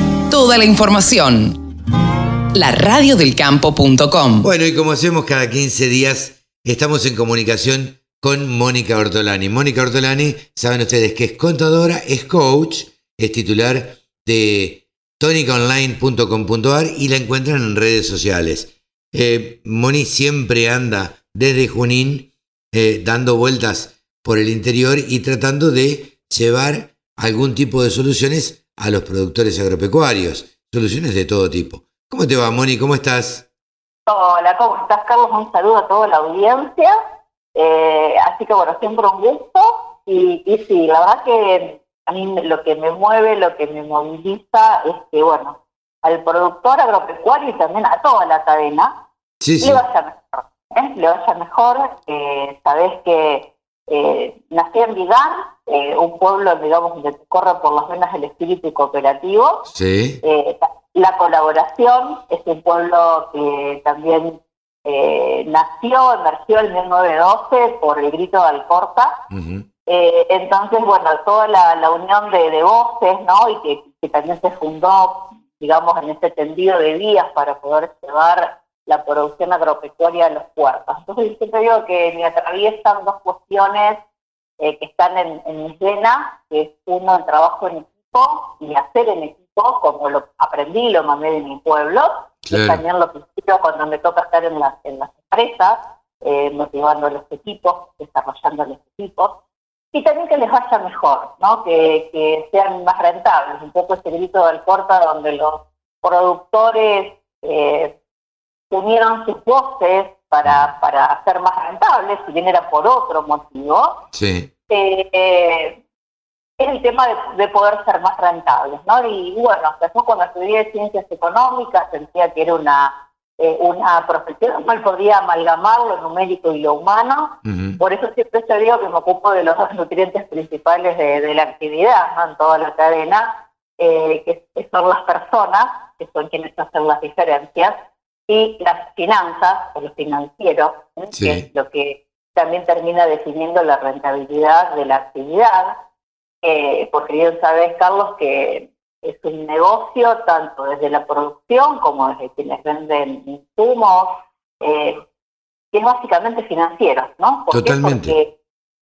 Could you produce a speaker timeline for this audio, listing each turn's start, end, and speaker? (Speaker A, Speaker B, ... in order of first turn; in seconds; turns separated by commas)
Speaker A: 0.3-1.6, Speaker A: 2.5-4.5, Speaker B: 4.4-33.5, Speaker C: 34.0-36.9, Speaker C: 37.5-48.9, Speaker B: 49.4-49.8, Speaker C: 49.6-59.7, Speaker B: 59.7-60.2, Speaker C: 60.2-69.1, Speaker B: 69.3-69.7, Speaker C: 69.8-84.0, Speaker C: 84.6-99.3, Speaker B: 92.5-92.8, Speaker C: 99.9-107.9, Speaker C: 108.7-114.0, Speaker B: 114.1-114.5, Speaker C: 114.7-115.8, Speaker C: 116.6-137.7, Speaker B: 127.4-127.8, Speaker C: 138.3-145.8, Speaker B: 141.1-141.4, Speaker C: 146.4-155.0, Speaker C: 155.7-158.3, Speaker B: 157.5-158.2